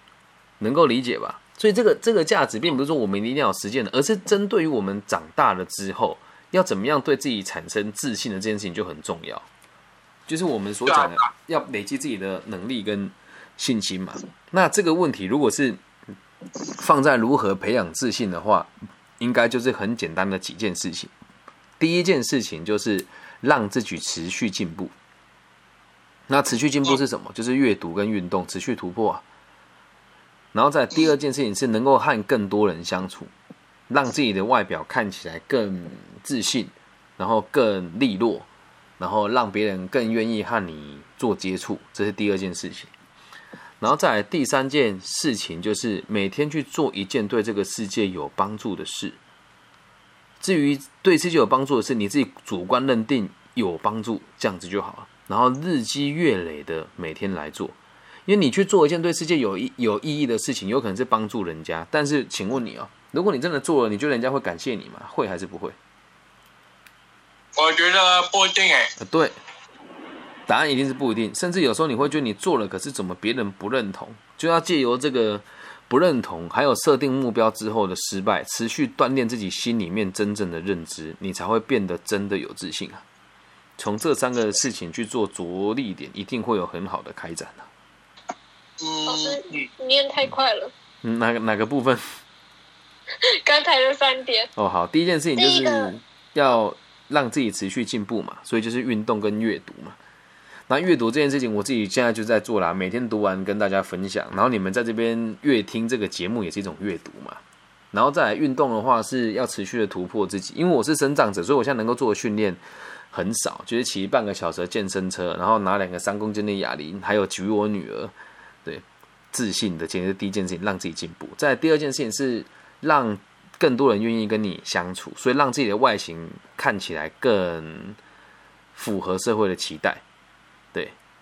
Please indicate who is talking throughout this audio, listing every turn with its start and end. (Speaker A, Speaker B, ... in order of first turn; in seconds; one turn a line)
Speaker A: 0.6-9.5
Speaker A: 10.3-15.8
Speaker B: 10.9-11.3
Speaker A: 16.8-21.1
Speaker A: 21.8-24.9
Speaker A: 26.3-29.2
Speaker A: 30.5-33.3
Speaker A: 33.9-38.5
Speaker A: 39.0-42.9
Speaker A: 43.8-49.2
Speaker A: 50.4-65.8
Speaker B: 67.6-68.9
Speaker A: 69.0-69.3
Speaker A: 70.5-83.0
Speaker A: 83.8-87.7
Speaker B: 88.8-89.7
Speaker C: 89.1-90.7
Speaker A: 91.0-92.0
Speaker C: 93.2-94.5
Speaker A: 94.6-100.0
Speaker C: 95.3-95.9
Speaker A: 100.7-107.4
Speaker A: 107.9-118.1
Speaker A: 118.7-128.0
Speaker A: 128.8-130.0